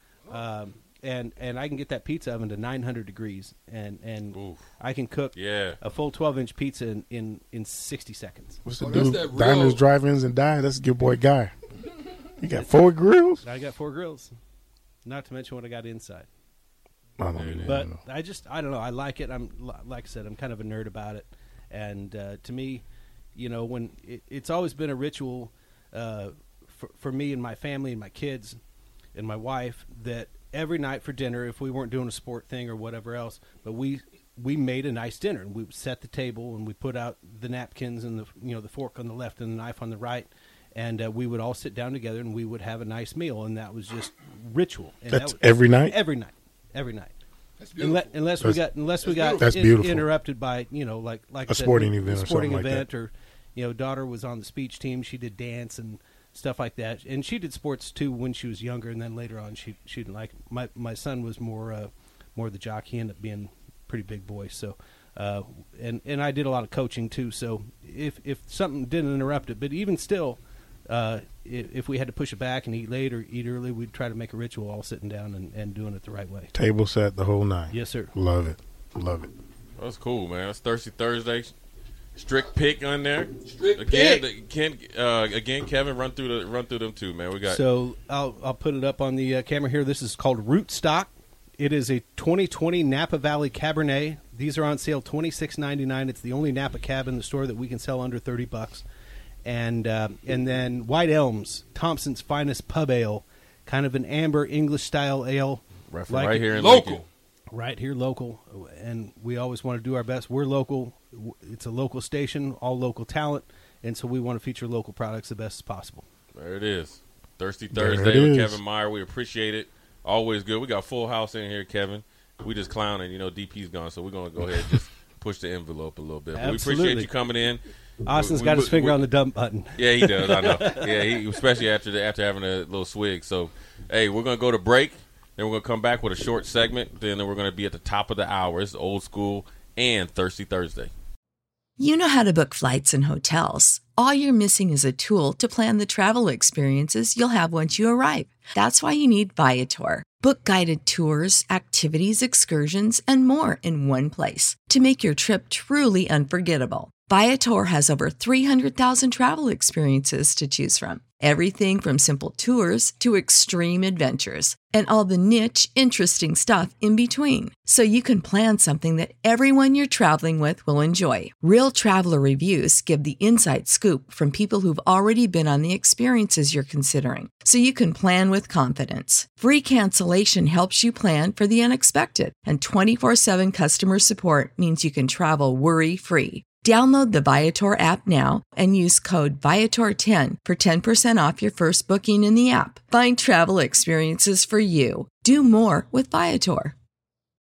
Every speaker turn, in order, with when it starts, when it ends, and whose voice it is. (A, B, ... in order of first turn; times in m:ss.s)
0:00.3-0:08.6 A
0:04.3-0:04.6 B
0:05.3-0:05.8 B
0:08.6-0:11.5 C
0:08.8-0:09.8 D
0:12.4-0:13.4 C
0:12.5-0:12.8 A
0:13.4-0:14.3 A
0:15.0-0:16.3 A
0:17.2-0:18.0 C
0:17.4-0:17.8 B
0:17.6-0:22.8 A
0:23.3-0:28.6 A
0:29.1-0:47.1 A
0:45.1-0:45.9 C
0:47.6-0:48.0 D
0:47.8-1:16.5 A
0:48.4-0:48.7 C
0:49.0-0:49.4 D
0:49.3-0:50.1 C
0:51.5-0:52.8 C
1:16.5-1:19.3 C
1:17.7-1:18.1 A
1:19.8-1:21.5 B
1:22.2-1:27.6 B
1:23.4-1:24.2 D
1:23.9-1:24.2 A
1:27.4-1:38.8 A
1:39.4-1:46.5 A
1:45.9-1:47.0 B
1:46.6-1:47.0 D
1:47.5-1:56.0 A
1:56.3-2:09.0 B
1:57.7-1:58.6 C
2:06.3-2:07.1 A
2:08.0-2:11.1 A
2:09.8-2:20.9 B
2:21.8-3:16.7 E